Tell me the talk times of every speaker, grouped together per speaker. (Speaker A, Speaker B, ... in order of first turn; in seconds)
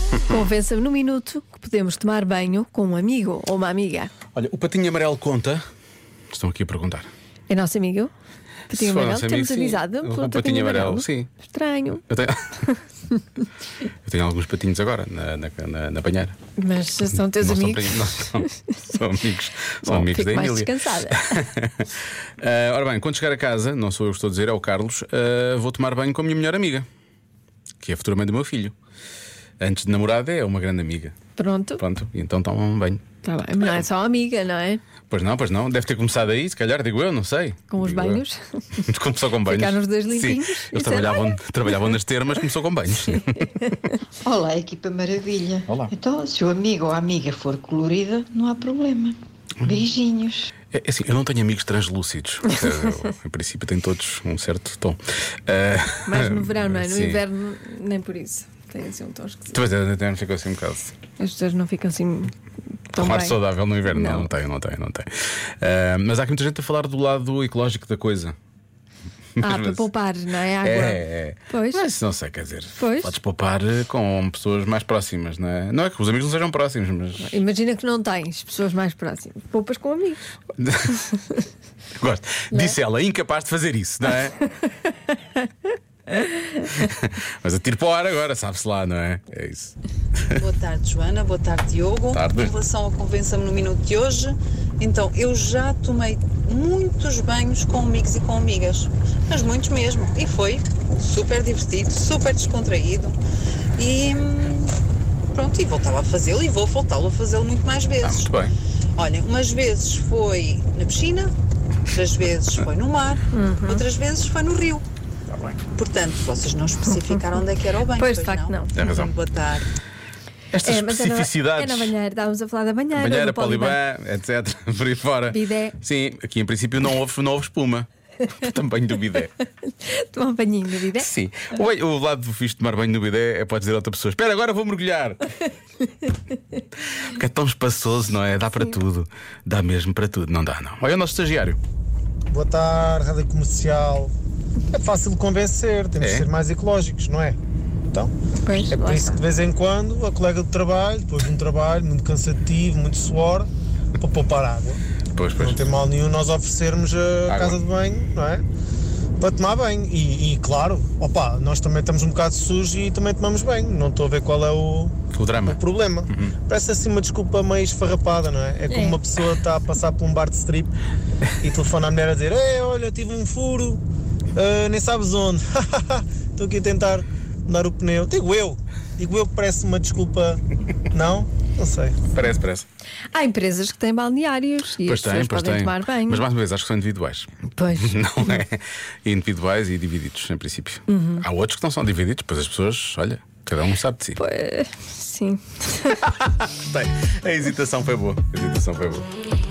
Speaker A: 0.2-4.1, 7.5-8.1, 8.7-12.1, 12.7-13.2, 16.6-18.8, 19.8-21.4, 31.4-31.8, 33.2-34.8, 37.7-38.9, 39.4-42.0, 43.4-44.0, 56.1-59.6, 61.2-62.3, 62.9-64.3, 69.4-71.8, 72.8-73.1, 77.2-80.2, 113.3-113.8, 116.9-117.2, 117.9-118.7, 120.6-123.8, 125.3-125.8, 129.7-131.1, 148.4-149.2, 168.7-169.0, 183.1-186.3, 187.4-188.4, 190.9-191.2, 194.2-196.0
Speaker B: 4.3-5.6, 6.3-7.1, 8.7-11.3, 12.1-12.4, 13.9-16.4, 17.1-21.9, 22.4-26.9, 27.8-28.7, 29.6-31.2, 31.8-33.1, 35.1-38.2, 38.8-43.6, 50.7-57.2, 59.5-61.0, 63.0-68.3, 69.4-69.9, 70.6-77.3, 80.6-81.0, 82.0-84.3, 86.6-90.4, 92.1-92.5, 108.0-108.5, 115.3-115.6, 118.7-119.1, 120.5-121.9, 122.9-129.3, 131.0-135.2, 136.8-141.6, 146.0-146.3, 155.2-155.7, 157.3-157.6, 165.1-165.6, 166.1-166.4, 182.1-182.7, 184.8-194.2, 195.9-199.1
Speaker C: 44.2-50.5
Speaker D: 90.3-103.2, 103.8-104.8, 105.3-108.3, 109.0-111.3, 111.9-114.8, 115.7-119.7
Speaker E: 142.3-144.1, 144.7-147.4, 148.7-154.8, 155.4-158.4, 159.2-170.7, 171.4-173.8, 174.3-182.0